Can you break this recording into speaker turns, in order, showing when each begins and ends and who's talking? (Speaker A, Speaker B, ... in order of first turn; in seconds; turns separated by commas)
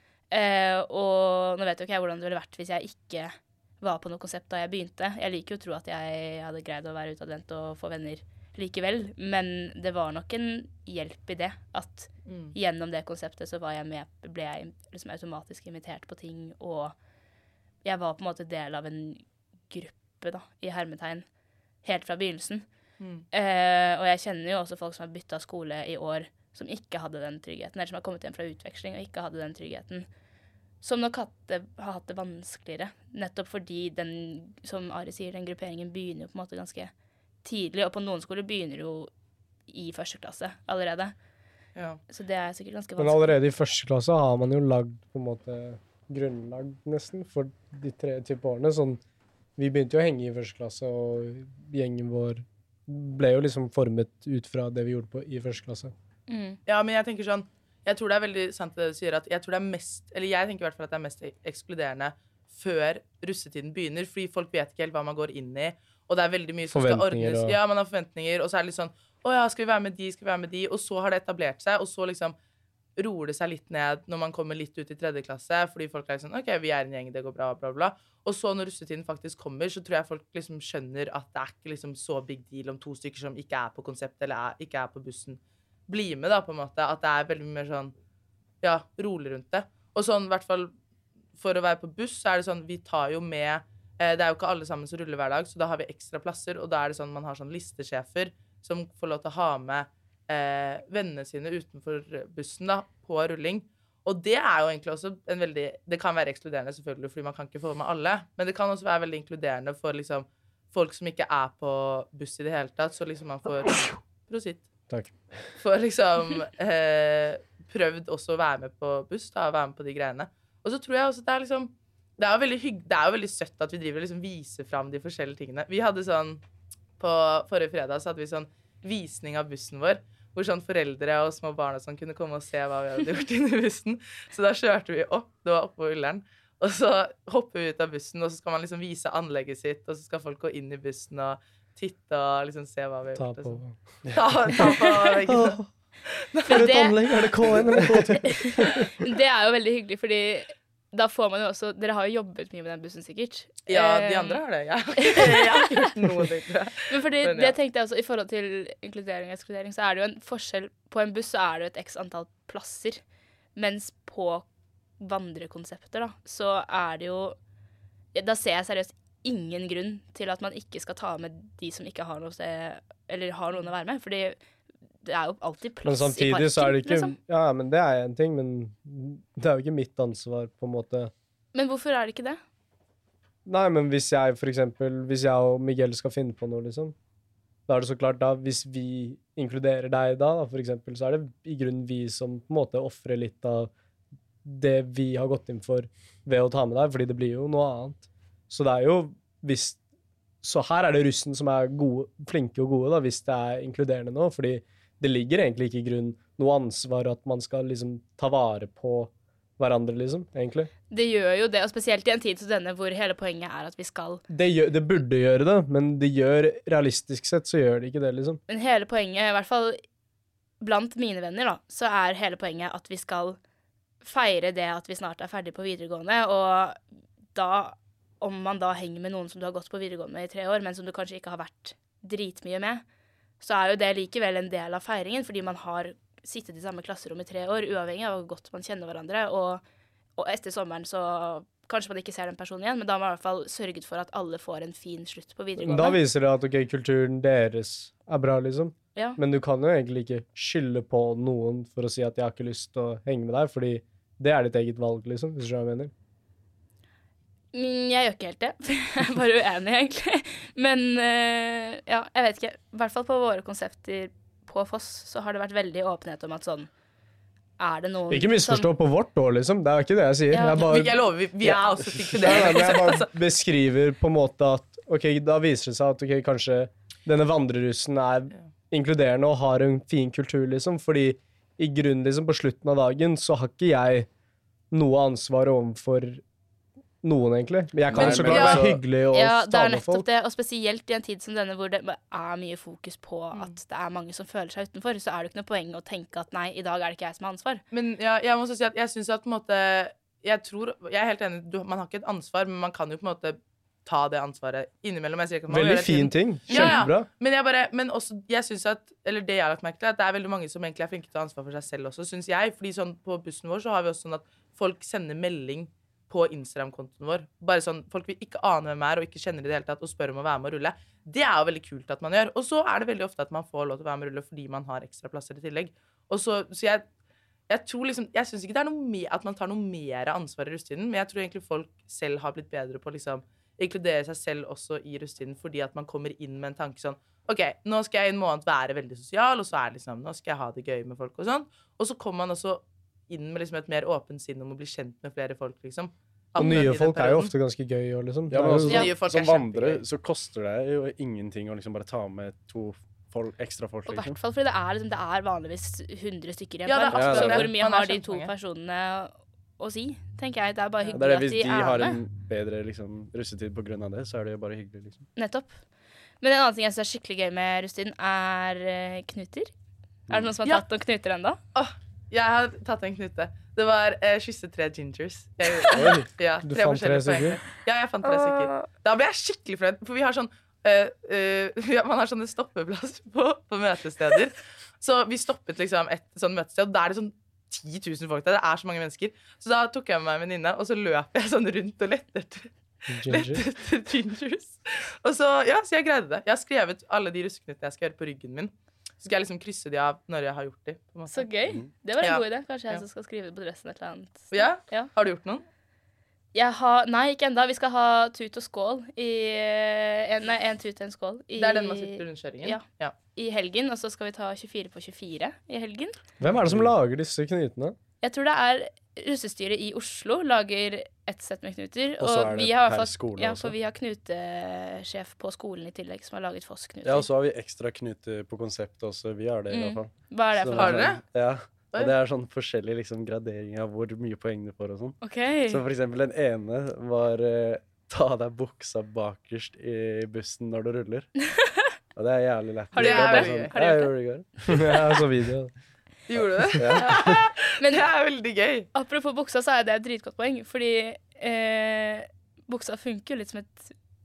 Speaker A: 0.3-16.9, Speaker B: 12.3-12.5, Speaker A: 17.8-21.2, Speaker A: 21.8-22.6, Speaker B: 23.0-23.2, Speaker A: 23.3-30.1, Speaker A: 30.8-36.9, Speaker A: 37.4-39.1, Speaker A: 39.7-41.1, Speaker A: 42.1-43.3, Speaker C: 43.0-49.0, Speaker C: 49.6-55.9, Speaker A: 56.3-56.6, Speaker B: 56.6-72.3, Speaker C: 66.7-67.6, Speaker B: 73.0-87.9, Speaker B: 88.6-90.7, Speaker B: 91.4-114.7, Speaker B: 115.6-126.4, Speaker B: 127.0-146.9, Speaker C: 143.2-145.7, Speaker A: 146.5-147.0, Speaker C: 146.5-148.9, Speaker A: 148.1-154.4, Speaker B: 153.7-157.5, Speaker A: 155.0-155.8, Speaker A: 156.9-163.0, Speaker A: 163.6-164.4, Speaker A: 165.0-167.4, Speaker A: 168.1-174.4, Speaker A: 175.0-177.1, Speaker C: 175.8-181.1, Speaker A: 181.5-182.4, Speaker C: 183.4-186.9, Speaker C: 187.7-193.7, Speaker C: 194.4-199.8, Speaker C: 200.4-210.7, Speaker A: 210.9-214.2, Speaker C: 214.3-218.4, Speaker A: 218.5-219.8, Speaker A: 220.6-223.4, Speaker A: 224.0-226.8, Speaker A: 227.3-232.8, Speaker A: 233.4-239.6, Speaker A: 240.2-246.0, Speaker C: 245.6-255.9, Speaker A: 257.5-266.7, Speaker A: 267.6-268.7, Speaker C: 268.1-284.1, Speaker A: 270.3-270.7, Speaker B: 270.5-273.1, Speaker C: 284.7-286.2, Speaker C: 287.0-290.1, Speaker D: 287.9-288.8, Speaker B: 287.9-288.7, Speaker A: 289.1-297.6, Speaker B: 297.7-326.9, Speaker C: 305.5-307.1, Speaker A: 306.5-306.8, Speaker B: 327.5-347.3, Speaker C: 346.4-348.9, Speaker A: 346.4-346.6, Speaker D: 348.3-354.1, Speaker B: 348.6-349.8, Speaker A: 353.9-362.0, Speaker B: 356.7-358.3, Speaker D: 356.9-357.5, Speaker D: 360.9-365.1, Speaker A: 365.1-365.5, Speaker A: 366.2-369.5, Speaker A: 370.1-371.4, Speaker B: 371.5-392.5, Speaker C: 375.7-377.4, Speaker A: 378.1-378.7, Speaker C: 392.9-393.4, Speaker B: 393.1-401.3, Speaker A: 401.1-404.9, Speaker B: 402.0-402.8, Speaker B: 404.3-405.4, Speaker A: 406.3-415.9, Speaker B: 411.4-412.9, Speaker C: 416.2-417.8, Speaker D: 416.2-416.7, Speaker A: 418.0-427.1, Speaker D: 422.0-423.5, Speaker D: 426.8-441.2, Speaker A: 429.5-430.9, Speaker B: 430.5-431.0, Speaker A: 435.0-435.6, Speaker D: 441.9-444.7, Speaker A: 442.7-444.7, Speaker B: 442.7-443.5, Speaker C: 444.5-445.5, Speaker B: 446.1-448.7, Speaker D: 446.6-447.2, Speaker A: 446.8-447.8, Speaker A: 448.7-453.7